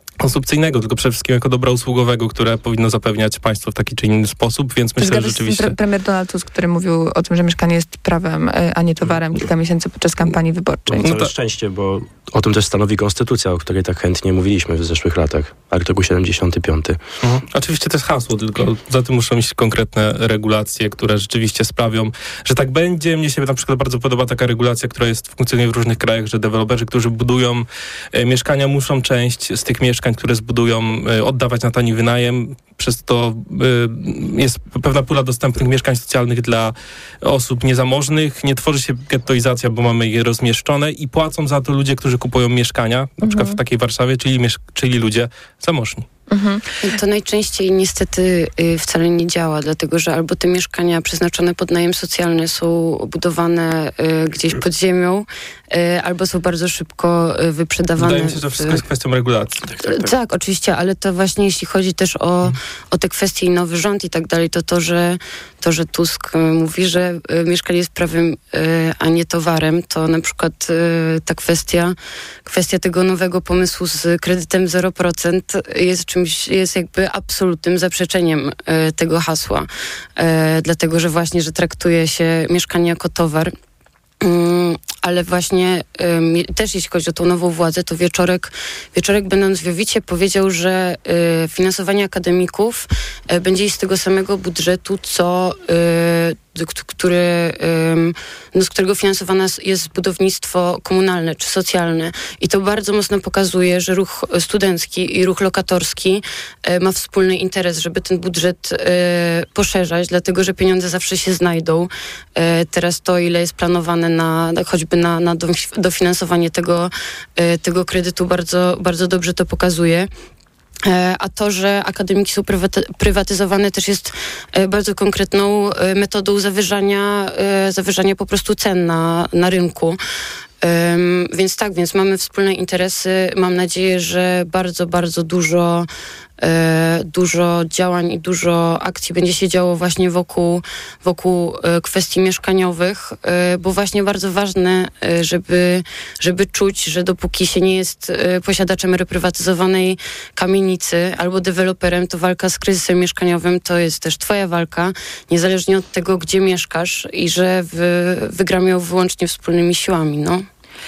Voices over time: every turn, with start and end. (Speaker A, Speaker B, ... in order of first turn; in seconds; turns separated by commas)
Speaker A: 0.2-5.7, Speaker B: 5.0-11.1, Speaker C: 10.9-17.0, Speaker A: 11.0-11.3, Speaker A: 17.2-46.0, Speaker B: 43.2-43.6, Speaker B: 46.3-46.7, Speaker D: 46.8-58.8, Speaker A: 58.0-60.0, Speaker D: 59.8-83.5, Speaker D: 84.2-120.1, Speaker D: 120.9-130.0, Speaker D: 130.6-135.9, Speaker D: 136.4-160.4